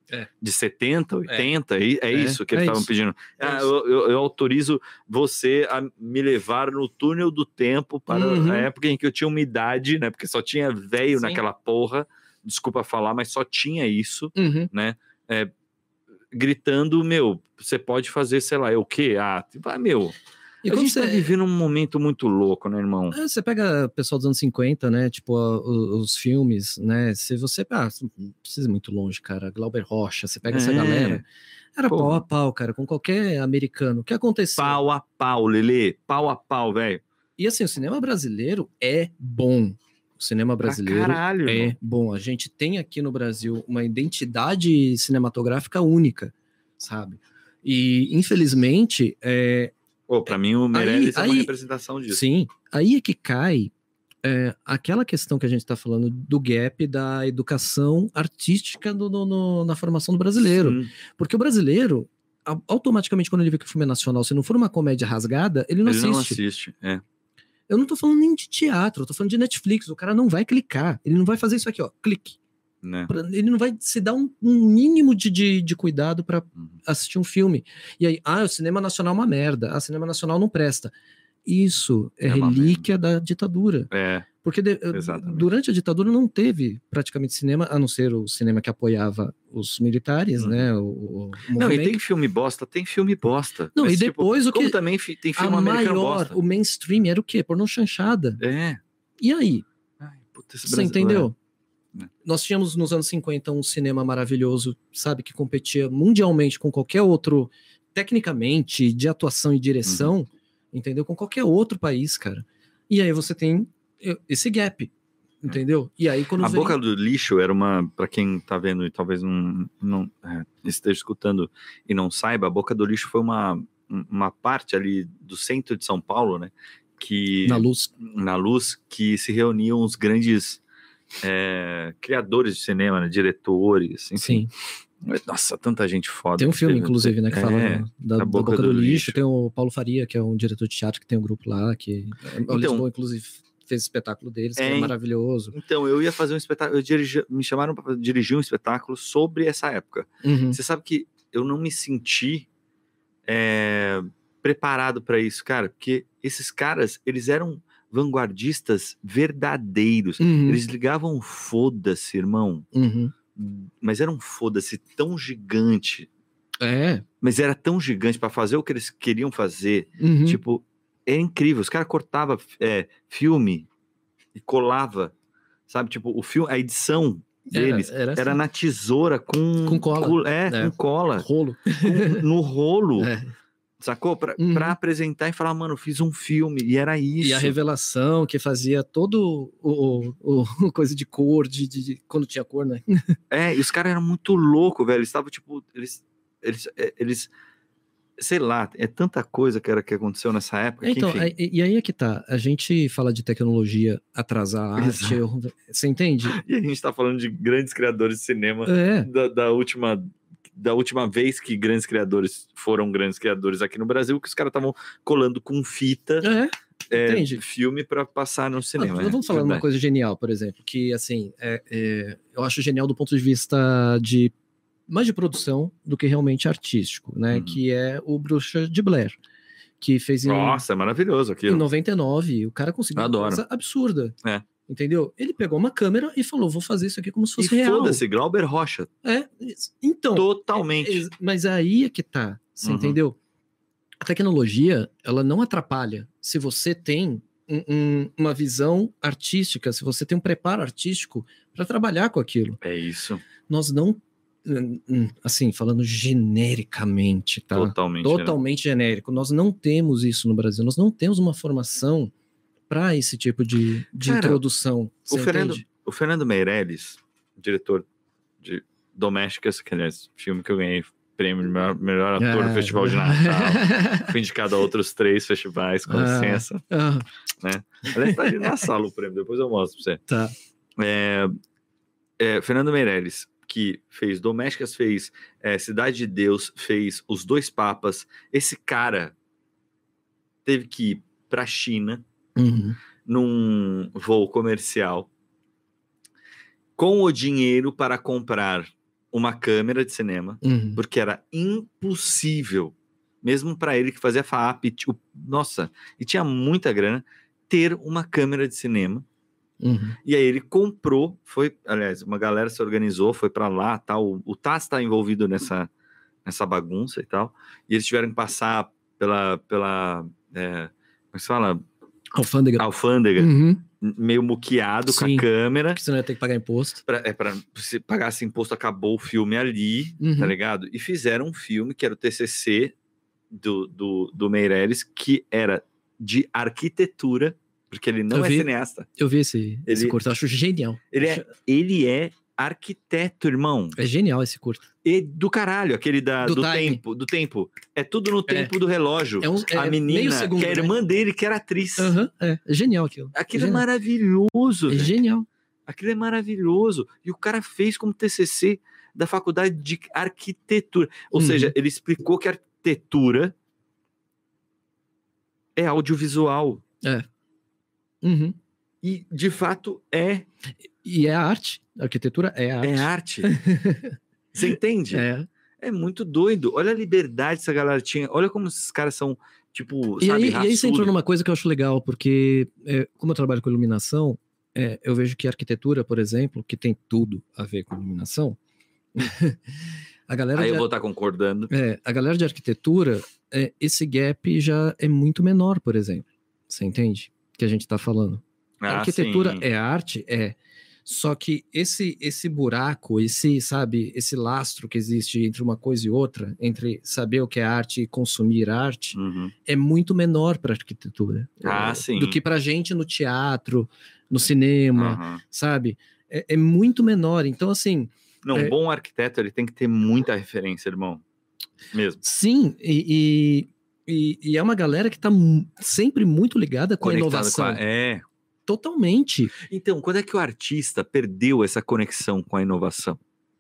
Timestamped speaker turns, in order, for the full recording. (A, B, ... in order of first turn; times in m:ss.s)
0:00.4-0:15.5 A
0:02.1-0:02.9 B
0:03.4-0:03.7 B
0:08.1-0:08.7 B
0:11.2-0:11.4 B
0:14.4-0:14.7 B
0:16.3-0:20.1 A
0:20.6-0:21.3 B
0:20.6-0:23.2 A
0:23.1-0:31.2 B
0:30.5-0:31.2 A
0:31.8-0:34.8 B
0:31.9-0:32.2 A
0:34.6-0:37.0 A
0:37.4-0:49.7 B
0:40.6-0:41.7 A
0:50.1-0:52.2 A
0:50.7-0:51.5 B
0:52.1-0:53.7 B
0:54.2-1:06.4 B
1:00.5-1:00.9 A
1:05.8-1:07.0 A
1:07.7-1:12.4 B
1:12.8-1:13.1 A
1:13.1-1:20.9 B
1:21.4-1:23.9 B
1:22.3-1:22.8 A
1:23.9-1:24.3 A
1:24.4-1:32.0 B
1:24.9-1:25.5 A
1:30.4-1:30.7 A
1:31.6-1:36.4 A
1:33.8-1:34.8 B
1:35.4-1:38.4 B
1:38.4-1:38.8 A
1:39.2-1:39.6 B
1:40.0-1:41.3 A
1:40.6-1:41.4 B
1:42.2-1:56.8 B
1:49.9-1:50.1 A
1:56.4-2:10.6 A
2:07.4-2:07.9 B
2:11.2-2:14.5 A
2:14.2-2:14.5 B
2:15.0-2:19.2 A
2:16.4-2:25.5 B
2:22.5-2:22.9 A
2:24.6-2:24.9 A
2:25.5-2:32.5 A
2:30.2-2:30.6 B
2:33.3-2:42.7 A
2:40.2-2:40.6 B
2:42.7-2:43.1 B
2:43.4-2:46.1 A
2:46.6-2:47.0 B
2:47.2-2:53.7 A
2:50.0-2:50.4 B
2:54.4-2:55.1 A
2:55.7-3:01.3 A
2:57.5-2:58.4 B
2:59.6-3:02.2 B
3:01.8-3:03.1 A
3:03.0-3:03.3 B
3:03.8-3:07.5 A
3:04.4-3:04.8 B
3:07.2-3:13.1 B
3:13.3-3:17.3 A
3:18.2-3:21.3 A
3:20.8-3:26.4 B
3:24.8-3:25.2 A
3:26.3-3:36.3 A
3:28.6-3:29.1 B
3:36.2-3:37.4 B
3:36.9-3:39.6 A
3:38.8-3:44.3 B
3:44.9-3:49.2 B
3:47.3-3:47.6 A
3:49.8-3:50.6 B
3:50.2-3:51.6 A
3:51.5-3:54.2 B
3:53.0-3:53.4 A
3:54.7-3:58.0 B
3:57.4-3:58.9 A
3:59.0-4:03.2 B
4:00.2-4:01.0 A
4:02.6-4:03.0 A
4:04.0-4:12.6 B
4:12.6-4:13.2 A
4:13.5-4:22.1 B
4:17.5-4:18.4 A
4:22.7-4:25.6 B
4:24.0-4:24.4 A
4:25.1-4:27.8 A
4:28.4-4:36.6 A
4:32.2-4:34.1 B
4:35.9-4:37.0 B
4:37.4-4:40.0 A
4:37.9-4:38.6 B
4:40.1-4:40.3 B
4:40.8-4:41.4 A
4:42.2-4:49.2 A
4:50.4-4:52.0 A
4:52.4-4:52.8 B
4:53.0-4:55.1 A
4:56.8-5:09.0 A
5:00.4-5:00.8 B
5:09.6-5:10.0 B
5:10.0-5:15.7 A
5:16.2-5:21.6 A
5:22.1-5:22.6 B
5:22.6-5:25.8 A
5:23.2-5:23.6 B
5:24.9-5:26.8 B
5:26.9-5:32.8 A
5:30.0-5:30.4 B
5:33.3-5:38.9 A
5:38.1-5:41.2 B
5:39.7-5:40.0 A
5:40.9-5:43.8 A
5:43.8-5:44.7 B
5:44.8-5:52.0 A
5:46.2-5:46.8 B
5:48.3-5:48.5 B
5:49.2-5:50.8 B
5:51.8-5:53.6 B
5:53.1-5:54.9 A
5:54.7-5:55.3 B
5:55.7-6:03.4 A
6:01.1-6:01.5 B
6:05.6-6:06.6 A
6:06.8-6:07.1 B
6:08.0-6:08.4 B
6:08.8-6:10.3 A
6:10.8-6:14.0 B
6:12.6-6:13.3 A
6:14.3-6:15.1 A
6:14.9-6:15.3 B
6:15.6-6:20.9 A
6:20.0-6:28.4 B
6:29.0-6:29.4 B
6:30.1-6:30.7 B
6:30.4-6:31.5 A
6:31.5-6:58.5 B
6:38.6-6:39.4 A
6:48.9-6:49.3 A
6:51.4-6:52.2 A
6:54.8-6:55.2 A
6:58.2-7:01.0 A
7:01.7-7:02.0 A
7:02.0-7:07.6 B
7:06.8-7:08.0 A
7:08.5-7:09.3 B
7:09.4-7:13.0 A